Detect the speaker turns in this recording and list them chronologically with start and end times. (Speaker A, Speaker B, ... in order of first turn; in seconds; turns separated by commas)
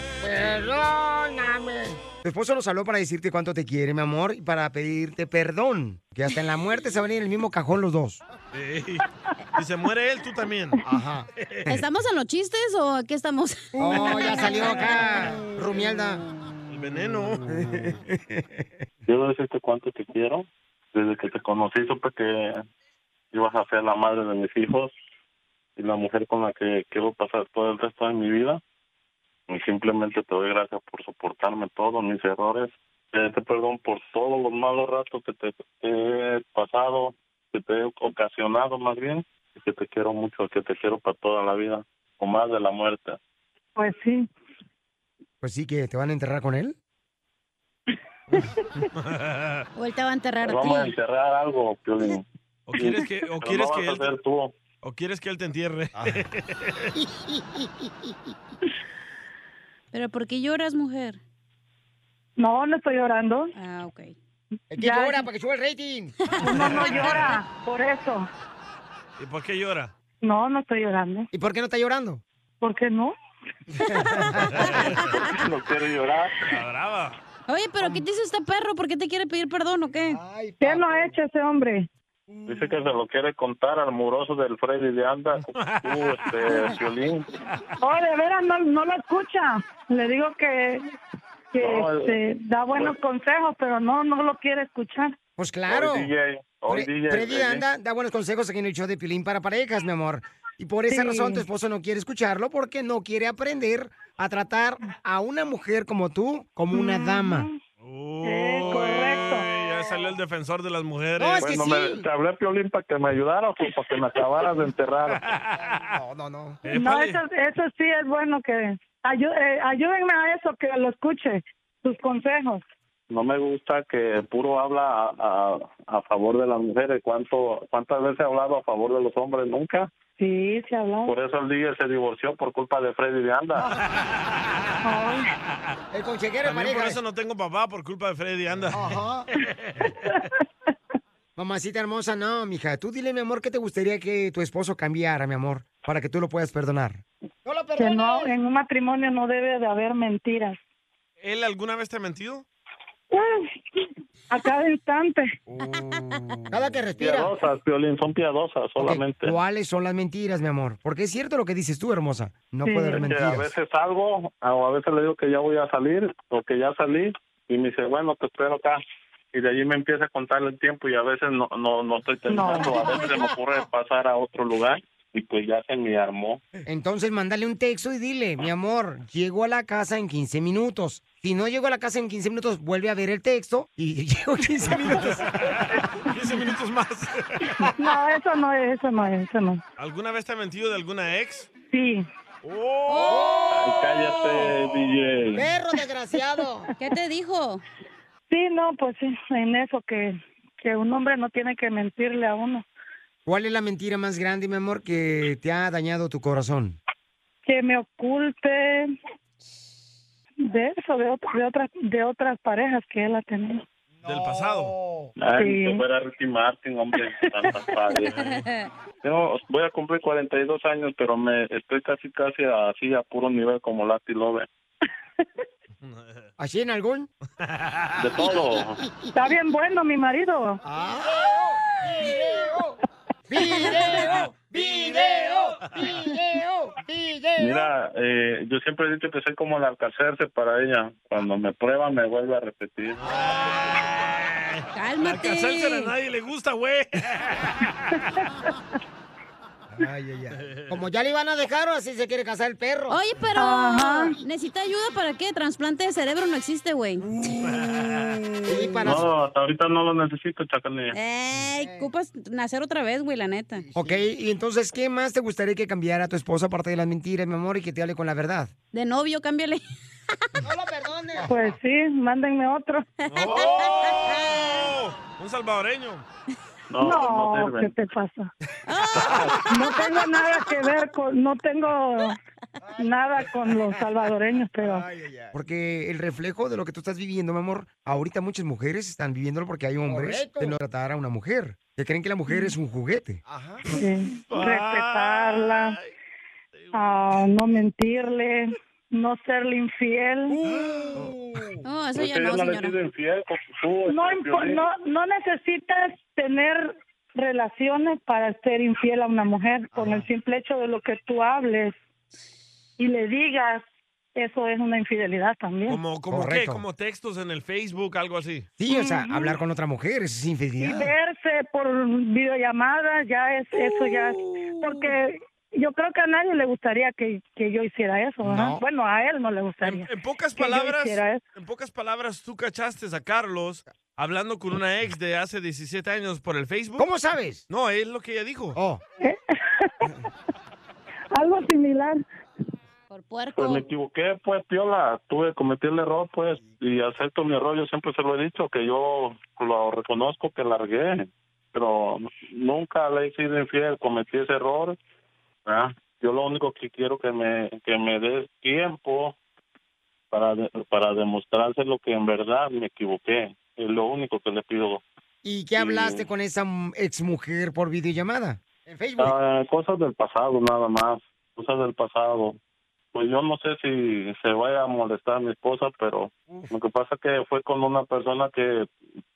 Speaker A: 0.2-8.2, Speaker B: 8.5-9.1, Speaker B: 9.6-10.8, Speaker A: 10.8-11.8, Speaker B: 11.4-11.6, Speaker C: 11.7-15.0, Speaker A: 13.8-16.2, Speaker B: 16.7-17.4, Speaker A: 17.5-18.6, Speaker D: 19.1-22.6, Speaker D: 23.3-24.9, Speaker D: 25.8-28.6, Speaker D: 29.5-43.2, Speaker E: 43.8-44.3, Speaker A: 45.4-46.8, Speaker B: 48.9-49.6, Speaker C: 49.7-50.9, Speaker D: 50.4-54.5, Speaker B: 52.7-54.1, Speaker B: 54.8-56.9, Speaker C: 59.9-61.2, Speaker E: 62.4-63.5, Speaker C: 63.5-64.1, Speaker A: 64.7-66.1, Speaker E: 64.8-65.3, Speaker E: 66.4-68.3, Speaker C: 66.4-67.3, Speaker B: 66.7-67.1, Speaker B: 69.2-69.9, Speaker E: 70.2-71.3, Speaker A: 71.3-72.2, Speaker E: 72.6-73.1, Speaker C: 73.9-75.3, Speaker A: 73.9-74.6, Speaker B: 74.4-75.0, Speaker D: 75.1-76.4, Speaker B: 76.4-77.2, Speaker C: 77.5-80.2, Speaker A: 80.2-81.1, Speaker E: 80.6-81.9, Speaker D: 82.5-87.3, Speaker B: 85.5-86.3, Speaker E: 87.8-90.8, Speaker E: 91.5-95.2, Speaker D: 91.6-92.1, Speaker A: 95.4-96.1, Speaker D: 95.7-97.6, Speaker A: 96.7-107.5, Speaker E: 100.9-101.4, Speaker E: 106.7-107.6, Speaker B: 107.8-111.5, Speaker E: 108.2-109.5, Speaker A: 111.2-112.0, Speaker D: 111.4-115.2, Speaker B: 115.2-115.9, Speaker A: 115.8-116.6, Speaker B: 116.6-117.2, Speaker E: 116.7-122.6, Speaker D: 123.1-129.9, Speaker E: 130.2-131.1, Speaker D: 131.1-133.7, Speaker E: 134.8-135.3, Speaker A: 135.9-137.0, Speaker B: 136.4-139.9, Speaker A: 138.7-139.2, Speaker A: 141.4-148.3, Speaker E: 147.8-150.6, Speaker B: 151.2-152.4, Speaker E: 153.1-153.8, Speaker E: 154.3-155.4, Speaker C: 155.7-156.3, Speaker A: 156.5-157.3, Speaker D: 157.0-159.4, Speaker A: 158.8-163.5, Speaker E: 162.6-163.1, Speaker D: 162.9-168.8, Speaker D: 169.3-176.4, Speaker E: 172.3-173.0, Speaker A: 176.7-185.3, Speaker B: 184.9-187.5, Speaker E: 187.8-189.6, Speaker B: 189.8-191.5, Speaker E: 191.6-192.1, Speaker B: 192.4-193.4, Speaker C: 192.9-193.5, Speaker A: 193.1-193.9, Speaker D: 193.5-195.4, Speaker A: 195.3-196.7, Speaker C: 196.8-197.6, Speaker E: 198.3-202.6, Speaker A: 203.2-206.8, Speaker E: 207.4-208.9, Speaker E: 210.5-213.6, Speaker B: 214.0-214.8, Speaker D: 215.2-218.1, Speaker E: 215.4-215.8, Speaker E: 217.2-217.5, Speaker B: 218.1-218.4, Speaker C: 218.2-218.7, Speaker D: 219.0-224.5, Speaker B: 225.8-226.3, Speaker A: 226.4-227.1, Speaker B: 227.4-228.0, Speaker D: 228.0-228.8, Speaker E: 229.1-230.6, Speaker A: 230.7-232.7, Speaker A: 233.3-237.7, Speaker C: 233.5-234.0, Speaker B: 234.5-235.9, Speaker D: 237.4-243.0, Speaker B: 243.0-248.0, Speaker C: 244.7-245.9, Speaker A: 249.8-253.0, Speaker B: 250.4-250.7, Speaker C: 252.9-257.4, Speaker E: 253.4-254.2, Speaker B: 257.4-258.1, Speaker A: 258.4-259.1, Speaker D: 258.9-260.9, Speaker C: 260.9-263.7, Speaker A: 263.7-268.5, Speaker C: 268.7-269.6, Speaker A: 270.4-271.3, Speaker E: 271.2-272.9, Speaker C: 273.0-274.4, Speaker B: 273.1-276.0, Speaker D: 276.7-277.7, Speaker E: 276.8-278.3, Speaker C: 278.7-279.8, Speaker D: 278.9-279.4, Speaker E: 279.5-282.2, Speaker E: 282.8-284.9, Speaker A: 285.3-293.2, Speaker E: 293.7-295.8, Speaker B: 294.3-295.9, Speaker B: 296.6-297.4, Speaker E: 296.7-300.4, Speaker A: 300.4-301.1, Speaker C: 301.6-302.8, Speaker D: 301.9-304.6, Speaker E: 303.9-311.7, Speaker E: 312.8-313.6, Speaker E: 314.1-315.8, Speaker B: 315.7-318.5, Speaker A: 316.1-316.6, Speaker A: 318.6-320.9, Speaker E: 318.7-319.4, Speaker E: 320.6-331.2, Speaker A: 328.2-328.6, Speaker B: 329.6-336.8, Speaker A: 336.8-337.4, Speaker B: 337.5-338.6, Speaker A: 338.6-338.8, Speaker E: 339.0-339.8, Speaker E: 341.1-342.0, Speaker C: 342.9-343.6, Speaker D: 343.4-354.8, Speaker D: 355.4-359.1, Speaker D: 360.1-364.8, Speaker A: 365.2-369.1, Speaker D: 365.6-366.1, Speaker D: 369.0-372.4, Speaker D: 372.9-378.7